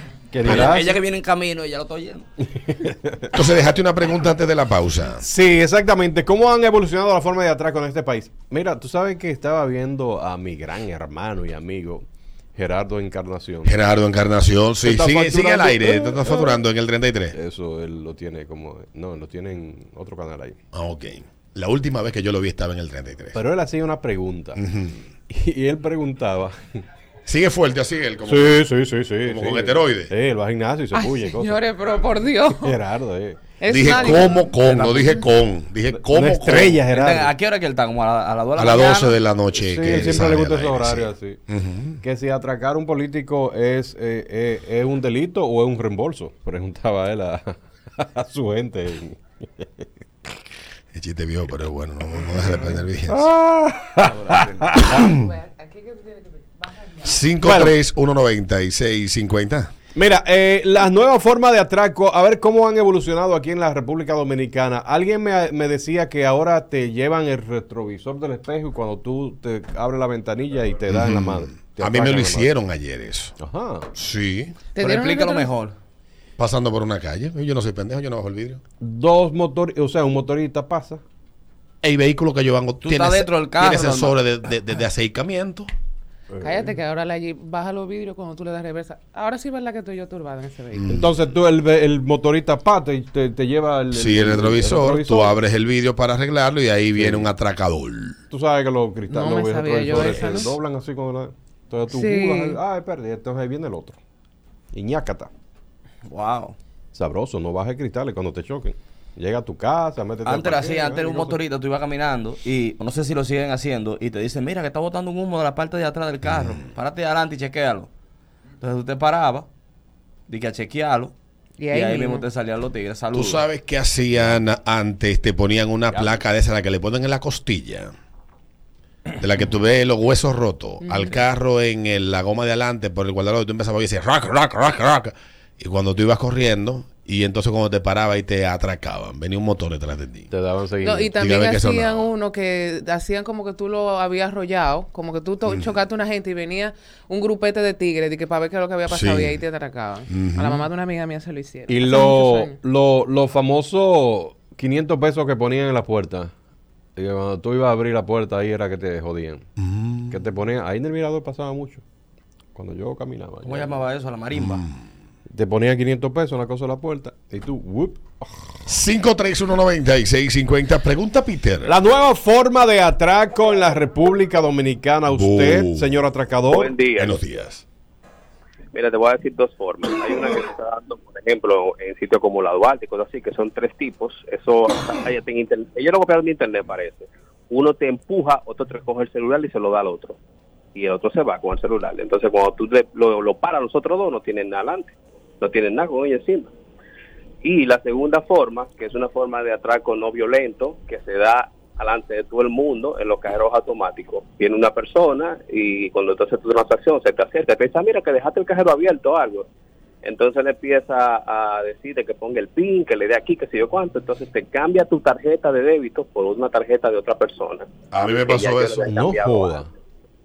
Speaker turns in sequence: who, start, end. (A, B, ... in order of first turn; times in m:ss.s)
0:00.3-0:00.9 A
0:00.4-0:02.3 B
0:02.7-0:03.3 A
0:03.3-0:05.2 C
0:05.2-0:13.7 A
0:13.6-0:17.4 C
0:14.8-0:16.6 A
0:17.3-0:20.6 A
0:20.7-0:23.4 C
0:23.3-0:24.6 A
0:24.6-0:25.0 C
0:25.3-0:26.8 A
0:27.2-0:28.6 C
0:28.2-0:31.6 A
0:29.2-0:30.1 C
0:30.9-0:32.8 D
0:32.5-0:33.4 A
0:33.6-0:34.4 D
0:33.7-0:36.8 C
0:33.9-0:35.0 A
0:35.9-0:37.3 A
0:36.6-0:39.2 B
0:38.6-0:42.0 C
0:39.5-0:41.4 A
0:42.0-0:49.8 A
0:50.9-0:53.2 C
0:53.1-0:55.0 A
0:54.0-0:54.7 B
0:54.8-0:55.3 C
0:55.1-0:57.3 D
0:57.0-0:59.7 C
0:57.4-0:57.8 A
0:59.9-1:12.5 A
1:10.9-1:13.3 C
1:13.4-1:13.9 A
1:13.9-1:14.5 C
1:14.7-1:15.5 D
1:14.8-1:15.8 B
1:16.4-1:18.6 C
1:18.8-1:21.0 A
1:21.8-1:25.7 C
1:22.8-1:24.2 B
1:26.3-1:26.7 A
1:26.4-1:30.9 D
1:30.7-1:31.1 C
1:30.9-1:35.3 A
1:33.9-1:38.2 C
1:37.0-1:37.3 A
1:38.3-1:44.0 A
1:39.1-1:40.5 D
1:39.9-1:40.5 C
1:41.9-1:42.6 D
1:44.7-1:45.3 A
1:46.0-1:46.6 B
1:46.9-1:51.4 A
1:50.2-1:57.9 B
1:58.6-1:59.5 B
2:00.3-2:01.1 B
2:01.6-2:02.2 D
2:01.7-2:03.5 B
2:03.1-2:07.9 C
2:04.1-2:04.4 B
2:05.9-2:06.2 B
2:09.2-2:20.3 C
2:10.8-2:11.1 D
2:20.3-2:21.1 A
2:20.8-2:32.6 D
2:21.2-2:22.1 C
2:25.4-2:25.7 C
2:28.9-2:29.4 C
2:30.1-2:30.6 C
2:31.7-2:36.3 A
2:37.0-2:39.5 A
2:39.6-2:40.2 C
2:40.1-2:41.8 A
2:42.5-2:43.8 A
2:43.4-2:44.6 B
2:44.3-2:44.7 C
2:45.3-2:48.6 A
2:48.7-2:51.7 C
2:51.6-2:56.8 A
2:55.1-2:56.0 C
2:56.5-2:57.2 E
2:57.0-2:57.6 C
2:58.7-3:10.2 E
3:10.7-3:16.5 E
3:17.4-3:29.5 E
3:30.0-3:39.6 E
3:37.9-3:38.8 C
3:38.8-3:39.7 A